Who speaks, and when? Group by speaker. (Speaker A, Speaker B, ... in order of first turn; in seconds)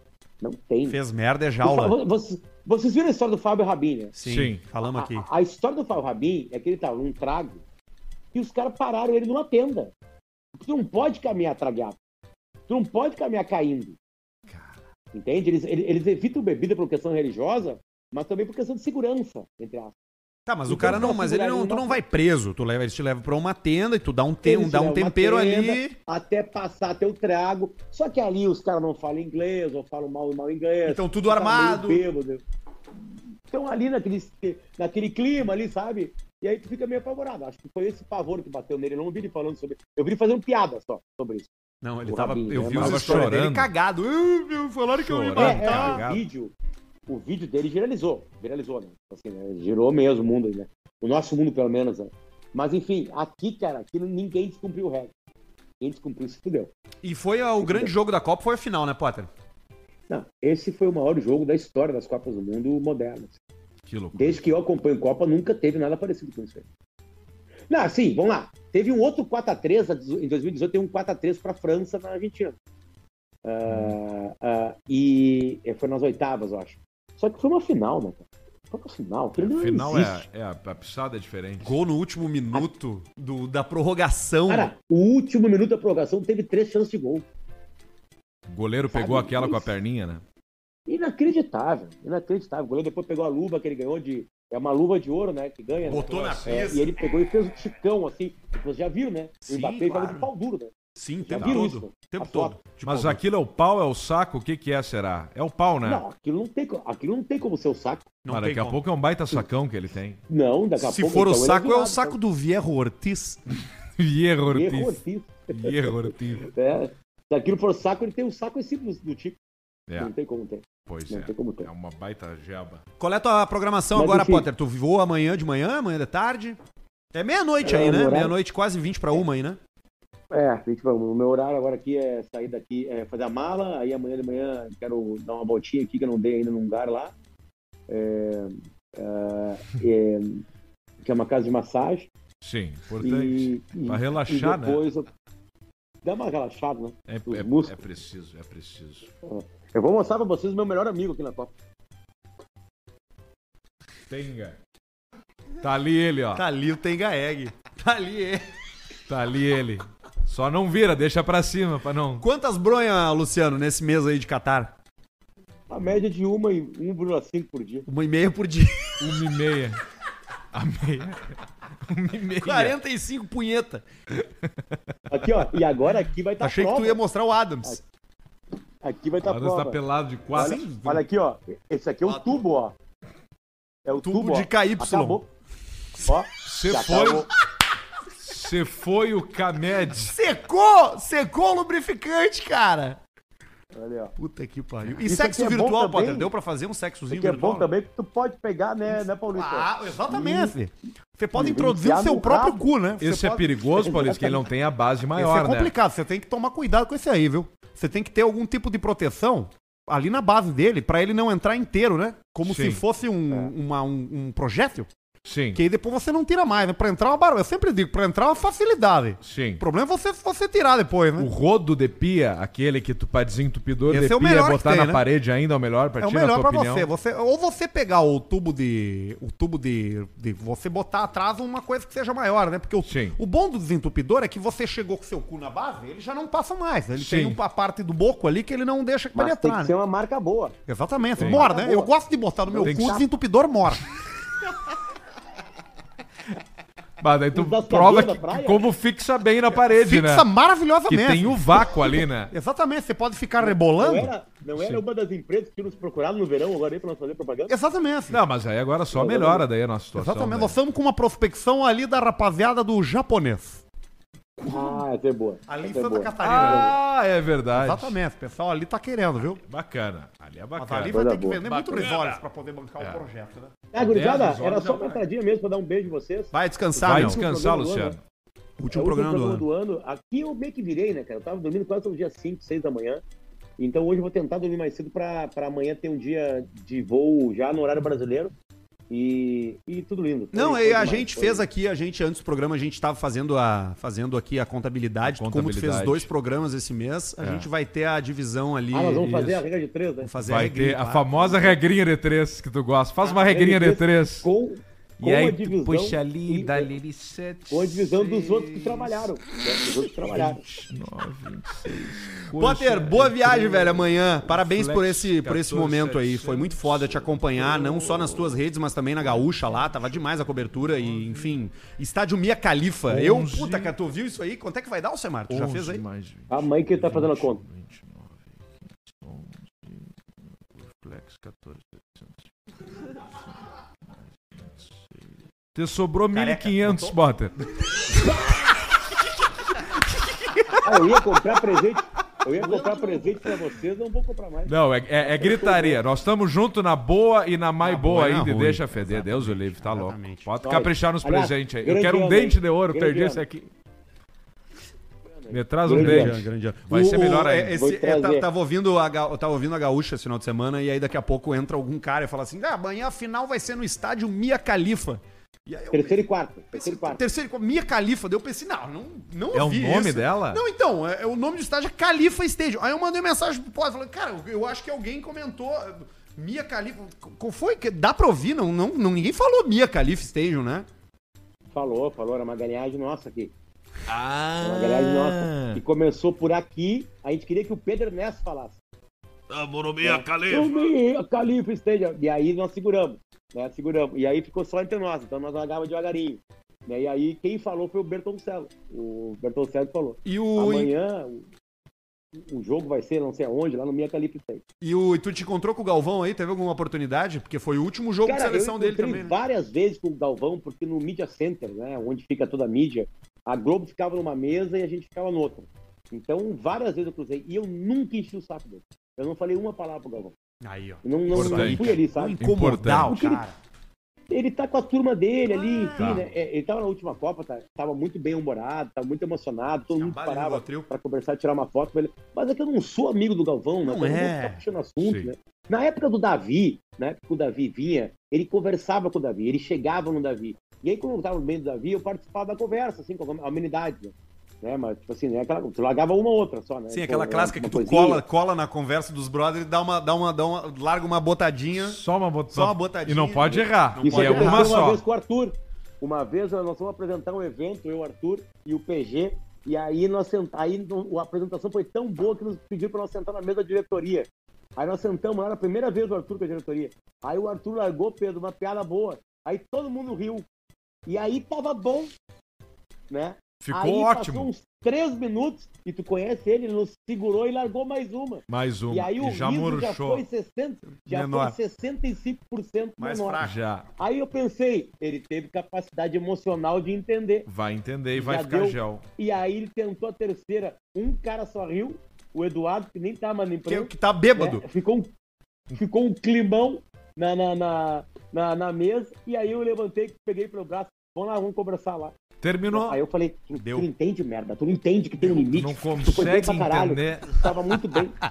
Speaker A: 0.4-1.0, 1.6-4.1, 4.8-7.6, 8.3-9.9, 10.6-12.0, 12.7-14.0, 15.1-19.9, 20.7-22.0, 24.4-32.4, 33.5-41.5, 42.1-43.3, 45.4-46.5, 47.1-55.1, 55.8-56.7, 57.6-57.9, 60.1-63.4, 64.1-66.6, 67.7-72.5, 73.4-80.2, 84.5-87.2, 88.9-89.7, 90.9-100.7, 101.2-102.6, 105.8-108.1, 110.3-112.2, 114.5-119.4, 120.0-121.7, 123.9-124.5, 127.6-128.3, 130.3-137.1, 137.9-140.4, 141.0-142.1, 143.0-145.1, 146.0-147.8, 149.2-151.5, 165.7-167.9, 175.1-177.0, 178.8-179.8, 180.3-182.7, 183.8-185.3, 186.0-187.3, 193.7-194.1, 195.1-196.3, 197.1-200.5, 201.3-202.6, 203.7-204.5, 239.1-240.6, 241.2-241.9, 242.5-243.0, 247.3-248.6, 253.4-257.5, 258.9-259.4, 264.5-266.7, 270.9-271.4, 273.7-278.0, 278.7-283.0, 283.6-288.3, 288.9-291.4, 298.7-300.1, 303.0-306.8, 307.5-310.4, 326.3-327.4, 340.6-345.8, 350.4-353.2, 355.1-356.2, 357.5-358.3, 365.7-367.0, 381.5-383.3, 384.4-388.6, 389.8-401.3, 402.1-404.4, 408.0-420.1, 420.8-422.2, 422.9-423.2, 424.1-448.0, 453.8-470.3, 470.9-471.9, 472.9-483.2, 483.8-487.3, 487.9-494.9, 495.5-501.9, 502.5-508.0
Speaker B: 0.8-1.9, 4.1-5.3, 20.5-25.9, 30.8-32.0, 41.8-46.0, 57.0-59.3, 81.6-84.7, 95.8-96.9, 99.5-100.3, 100.9-103.2, 108.2-108.8, 110.8-113.4, 123.0-126.6, 127.1-129.6, 156.3-158.4, 162.2-164.7, 167.9-169.0, 172.4-173.9, 176.4-177.8, 180.3-180.9, 182.1-182.4, 184.0-185.2, 189.9-193.0, 194.2-197.7, 198.8-203.5, 205.2-214.9, 215.5-221.3, 223.9-225.0, 226.0-239.7, 240.7-243.8, 249.5-254.1, 257.5-258.2, 259.9-263.6, 264.4-264.8, 265.5-266.8, 267.5-269.4, 270.6-273.6, 276.3-277.3, 278.6-279.4, 290.3-299.3, 300.0-301.6, 312.2-325.8, 336.1-337.0, 347.6-350.3, 355.7-380.7, 400.0-400.7, 404.6-409.1, 420.4-423.4, 425.3-426.1, 429.7-430.7, 433.6-434.4, 446.7-454.7, 480.8-481.4, 482.8-483.4, 493.5-494.4, 503.3-503.7
Speaker C: 4.2-4.6, 42.5-43.7, 44.9-46.3, 63.8-64.4, 73.7-74.0, 79.4-81.8, 88.5-90.2, 96.1-96.4, 101.3-101.6, 102.8-106.0, 108.3-110.2, 114.0-116.5, 120.8-122.8, 142.4-144.8, 147.1-149.1, 154.1-154.6, 155.6-156.4, 159.1-162.2, 169.0-169.8, 170.5-172.8, 174.1-174.8, 179.2-181.0, 186.4-187.3, 188.2-190.2, 203.0-205.7, 212.4-212.8, 215.2-215.6, 219.2-219.6, 221.2-226.9, 232.8-233.2, 236.9-237.4, 241.2-241.5, 242.6-243.0, 247.0-250.3, 250.9-252.3, 254.5-254.8, 258.1-260.6, 266.2-268.0, 269.4-272.2, 272.8-273.1, 273.8-275.0, 276.8-278.0, 295.1-296.1, 297.2-297.5, 299.0-299.4, 300.2-304.3, 305.0-309.1, 310.0-318.4, 319.0-321.4, 322.9-323.7, 325.3-332.3, 332.9-338.3, 339.6-341.1, 342.6-342.9, 344.4-353.5, 355.3-357.6, 369.3-370.4, 383.9-385.6, 389.3-390.7, 421.1-423.0, 425.7-426.1, 434.8-435.1, 451.5-454.8, 473.4-474.3, 478.3-480.0, 483.2-483.7, 487.3-488.8, 502.2-502.8, 505.3-507.1